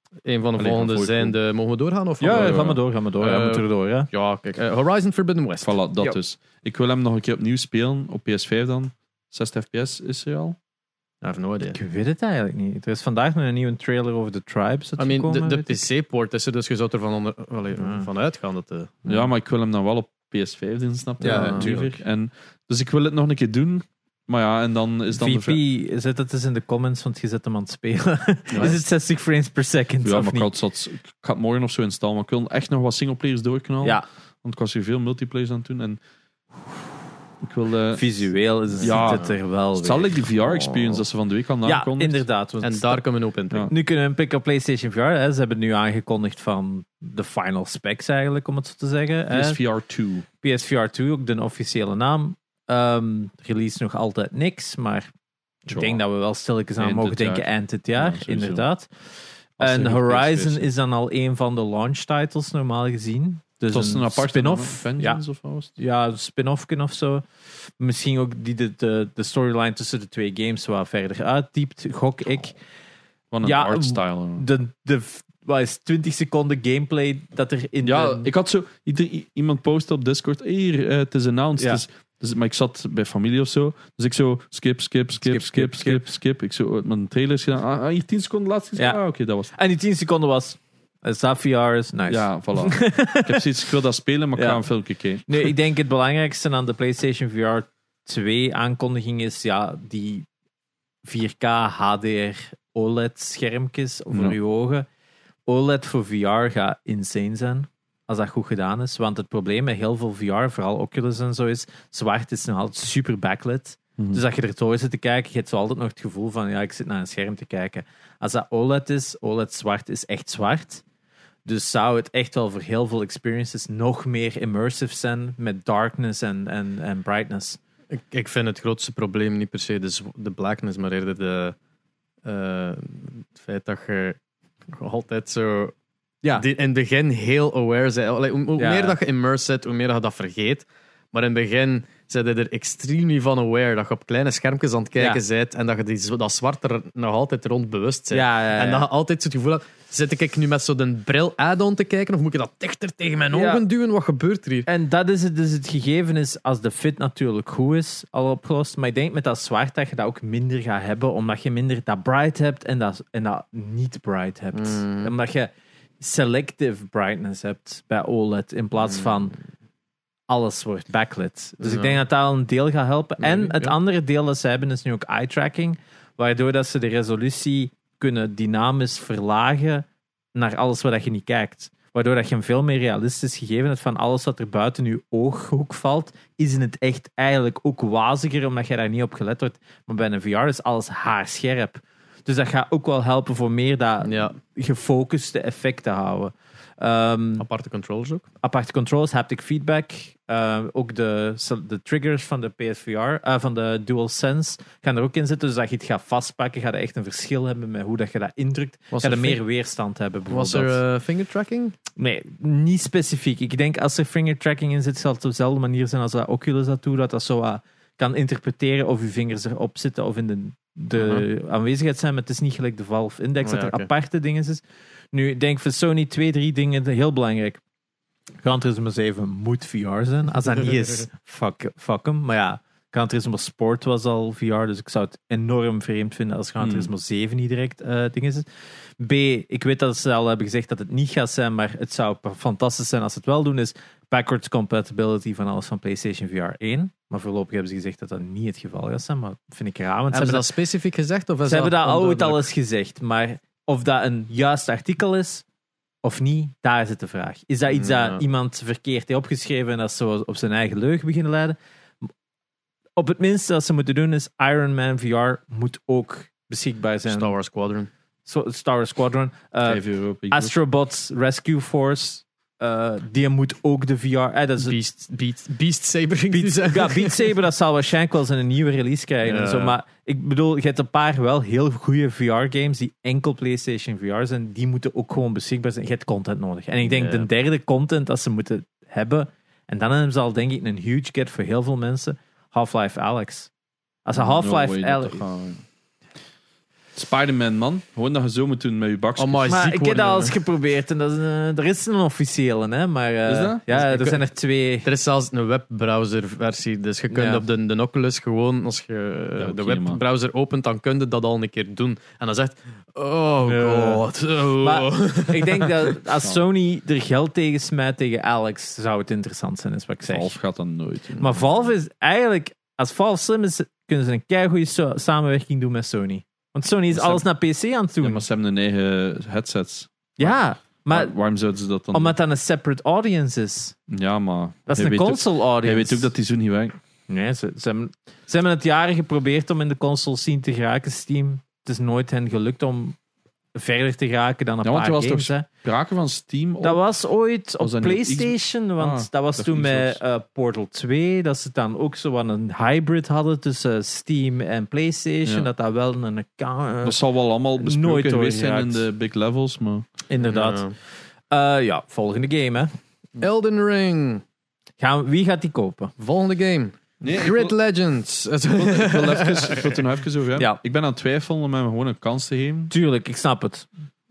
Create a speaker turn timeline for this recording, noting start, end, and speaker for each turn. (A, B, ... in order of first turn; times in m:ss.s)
0:00.2-0:06.1 A
0:00.6-0:01.4 B
0:02.2-0:04.1 C
0:02.3-0:02.7 B
0:05.6-0:10.6 B
0:11.2-0:11.8 A
0:11.7-0:15.8 C
0:15.0-0:19.2 A
0:17.8-0:18.1 C
0:19.0-0:25.6 B
0:21.2-0:21.7 A
0:21.2-0:22.0 C
0:25.1-0:30.5 C
0:28.5-0:28.8 B
0:30.0-0:36.0 B
0:37.4-0:38.0 B
0:38.0-0:41.0 C
0:38.8-0:42.2 B
0:38.8-0:39.3 A
0:41.6-0:43.0 C
0:42.6-0:43.7 A
0:43.7-0:49.6 C
0:49.3-0:50.2 B
0:50.4-0:55.1 C
0:55.6-0:58.9 C
0:55.7-0:56.0 B
0:56.8-0:58.6 B
0:59.6-1:00.7 B
0:59.6-1:05.2 C
1:03.7-1:05.7 B
1:05.8-1:07.2 C
1:07.8-1:12.6 C
1:13.3-1:14.4 B
1:13.4-1:18.3 C
1:17.8-1:29.5 B
1:25.2-1:26.0 C
1:29.5-1:33.4 C
1:32.1-1:35.5 B
1:34.4-1:34.6 C
1:35.3-1:40.2 C
1:41.0-1:44.9 C
1:45.5-2:00.8 C
2:01.4-2:07.6 C
2:07.9-2:11.6 A
2:12.2-2:14.2 A
2:14.7-2:15.7 A
2:16.3-2:34.7 A
2:18.6-2:19.0 C
2:28.1-2:28.9 C
2:33.3-2:33.6 C
2:34.7-2:49.3 C
2:44.5-2:45.1 A
2:50.3-3:17.4 C
2:51.6-2:52.0 A
2:53.2-2:53.8 A
3:14.0-3:14.3 A
3:17.4-3:18.2 A
3:18.4-3:30.8 C
3:28.9-3:29.4 A
3:30.3-3:31.7 A
3:32.0-3:47.6 C
3:40.9-3:41.2 A
3:43.4-3:43.9 A
3:48.4-3:58.4 C
3:56.6-3:56.9 B
3:59.0-4:10.5 C
4:10.1-4:12.5 A
4:11.4-4:15.4 C
4:16.0-4:21.6 C
4:17.7-4:18.2 A
4:23.0-4:27.3 C
4:27.0-4:27.9 A
4:28.2-4:34.8 C
4:29.6-4:30.5 B
4:34.6-4:37.3 A
4:36.3-4:53.5 C
4:39.2-4:39.8 A
4:46.8-4:47.3 A
4:54.0-4:55.2 C
4:54.2-4:55.6 B
4:56.9-4:59.5 B
4:59.2-5:00.4 A
4:59.5-5:04.9 C
5:03.2-5:03.6 B
5:03.7-5:04.2 A
5:04.8-5:15.9 A
5:07.1-5:07.4 C
5:09.4-5:10.0 B
5:13.4-5:14.0 C
5:14.6-5:20.3 C
5:20.1-5:21.4 B
5:21.2-5:28.2 C
5:26.9-5:27.2 B
5:28.0-5:30.4 B
5:30.2-5:31.1 C
5:30.9-5:32.1 B
5:31.9-5:33.8 C
5:33.9-5:36.8 B
5:34.7-5:36.1 C
5:37.1-5:43.0 C
5:43.5-5:45.5 C
5:44.6-5:46.8 B
5:46.6-5:57.0 C
5:47.6-5:50.0 B
5:55.2-5:55.5 B
5:56.8-5:59.8 B
5:57.6-5:58.8 C
6:00.1-6:00.7 C
6:00.2-6:00.7 A
6:01.3-6:02.7 C
6:03.2-6:04.2 A
6:04.8-6:05.9 C
6:06.0-6:09.7 A
6:07.0-6:07.5 B
6:08.5-6:12.7 B
6:12.7-6:13.7 C